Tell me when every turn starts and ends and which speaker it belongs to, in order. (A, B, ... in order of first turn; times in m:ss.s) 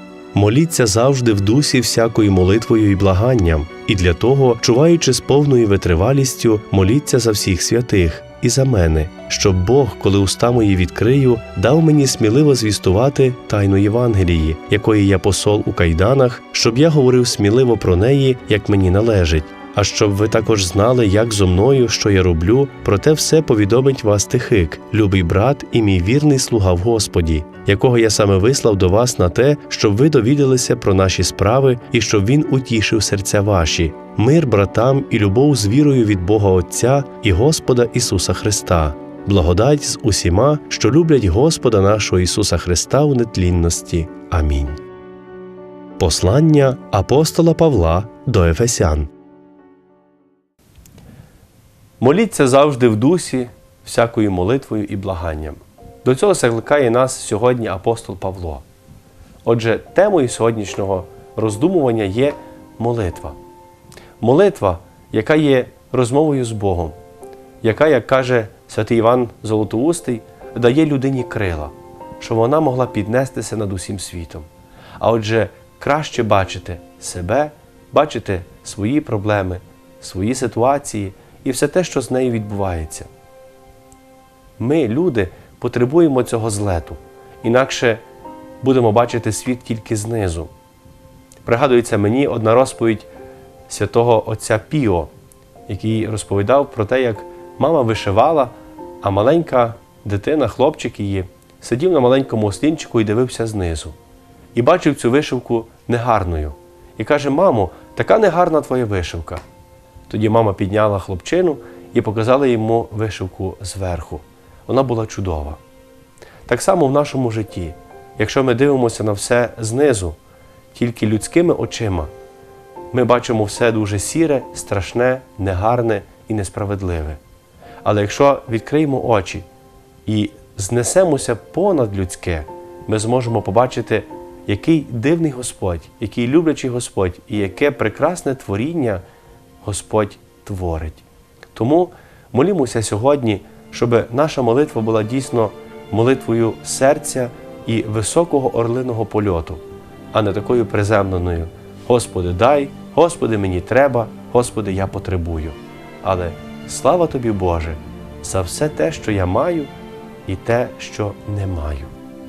0:00.3-0:44.8 A
0:46.0-0:49.1 A
0:52.0-0:58.6 A
0:59.4-1:03.4 A
1:04.2-1:07.0 A
1:07.6-1:14.5 A
1:15.0-1:23.1 A
1:24.6-1:28.0 A
1:28.6-1:30.5 A
1:31.4-1:33.1 A
1:33.7-1:35.1 A
1:35.7-1:44.0 A
1:44.6-1:49.4 A
1:50.1-1:55.6 A
1:56.5-2:00.2 A
2:00.7-2:02.1 A
2:02.9-2:07.2 A
2:07.8-2:09.5 A
2:10.1-2:19.0 A
2:19.6-2:39.7 A
2:40.3-2:41.9 A